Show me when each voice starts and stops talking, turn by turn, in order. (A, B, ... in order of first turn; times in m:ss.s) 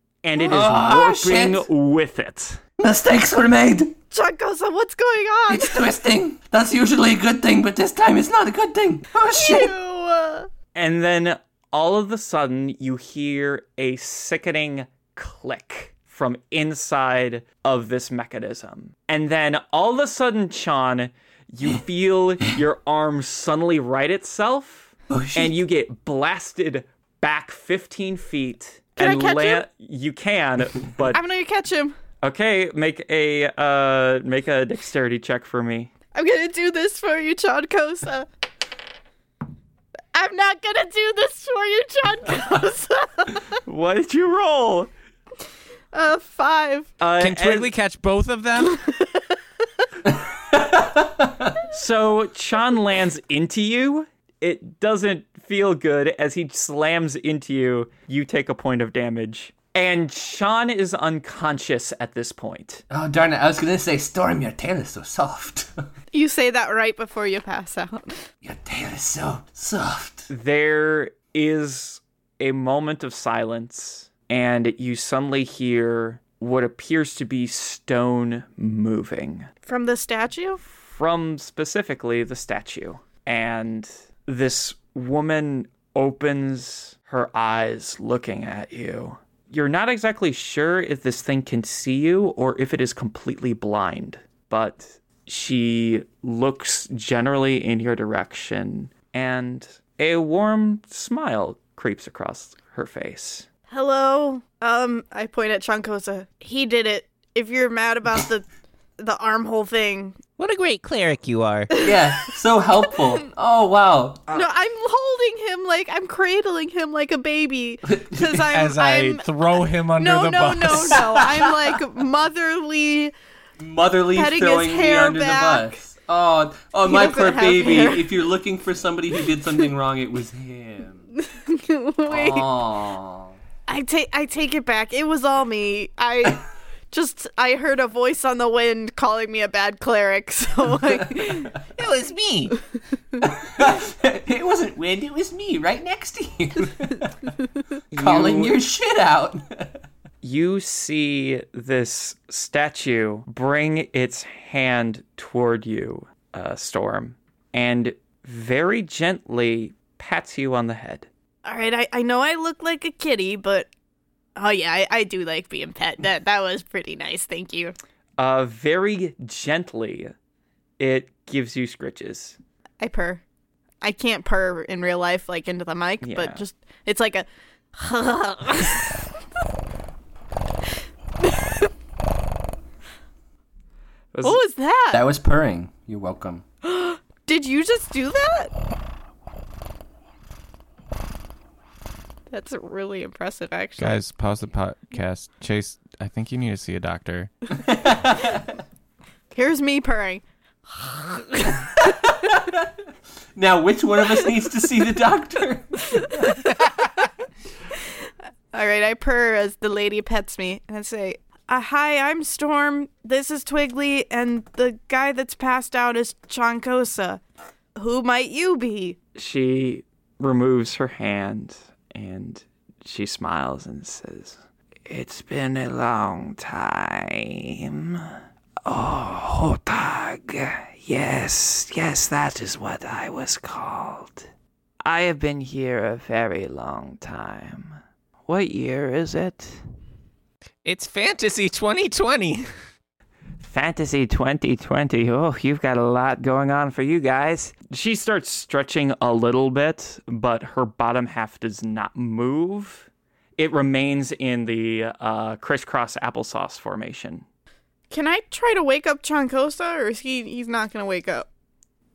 0:00.2-0:02.6 A
0:00.4-0:01.6 B
0:02.8-0:03.9 B
0:04.1-0:05.9 C
0:05.5-0:09.7 B
0:09.3-0:10.5 C
0:10.7-0:31.2 A
0:25.1-0:25.5 B
0:29.0-0:29.6 C
0:31.1-0:32.0 C
0:32.2-0:35.9 A
0:36.1-0:38.3 C
0:40.1-0:43.4 C
0:43.6-0:44.9 A
0:45.9-0:46.9 C
0:47.0-0:47.7 A
0:47.2-0:48.8 D
0:48.6-0:49.3 C
0:50.5-0:51.5 B
0:51.7-1:02.8 A
1:02.9-1:05.8 B
1:06.1-1:08.2 C
1:08.4-1:10.3 B
1:10.3-1:19.5 A
1:19.6-1:20.6 C
1:20.6-1:43.5 A
1:43.7-1:48.4 C
1:49.0-1:50.2 C
1:50.4-1:51.8 E
1:51.7-1:52.3 C
1:51.8-1:54.3 B
1:54.3-1:59.3 C
1:57.9-1:58.4 B
1:58.5-2:01.2 D
2:00.0-2:03.1 C
2:00.7-2:01.5 B
2:03.6-2:11.1 B
2:04.1-2:05.8 C
2:06.8-2:08.1 C
2:11.2-2:12.5 C
2:12.0-2:13.4 B
2:13.7-2:21.5 C
2:21.8-2:22.6 E
2:23.2-2:27.1 B
2:27.9-2:28.6 A
2:27.9-2:29.7 B
2:30.2-2:41.1 A
2:41.4-2:43.7 C
2:44.4-2:47.7 C
2:48.2-2:50.1 A
2:50.8-2:52.4 A
2:52.8-2:53.2 C
2:53.8-2:59.0 C
2:56.0-2:56.4 A
3:01.2-3:01.7 C
3:04.1-3:04.4 A
3:04.2-3:05.0 C
3:04.9-3:06.4 B
3:06.6-3:08.5 C
3:12.3-3:14.0 C
3:13.8-3:17.3 D
3:17.6-3:18.4 B
3:19.3-3:20.2 C
3:20.7-3:21.6 C
3:21.8-3:22.6 B
3:23.4-3:26.2 B
3:26.1-3:26.5 C
3:28.5-3:37.2 C
3:37.8-3:39.0 C
3:39.2-3:48.0 A
3:48.6-3:54.3 A
3:54.8-3:59.6 A
4:00.6-4:02.5 E
4:03.4-4:17.2 A
4:17.9-4:21.2 C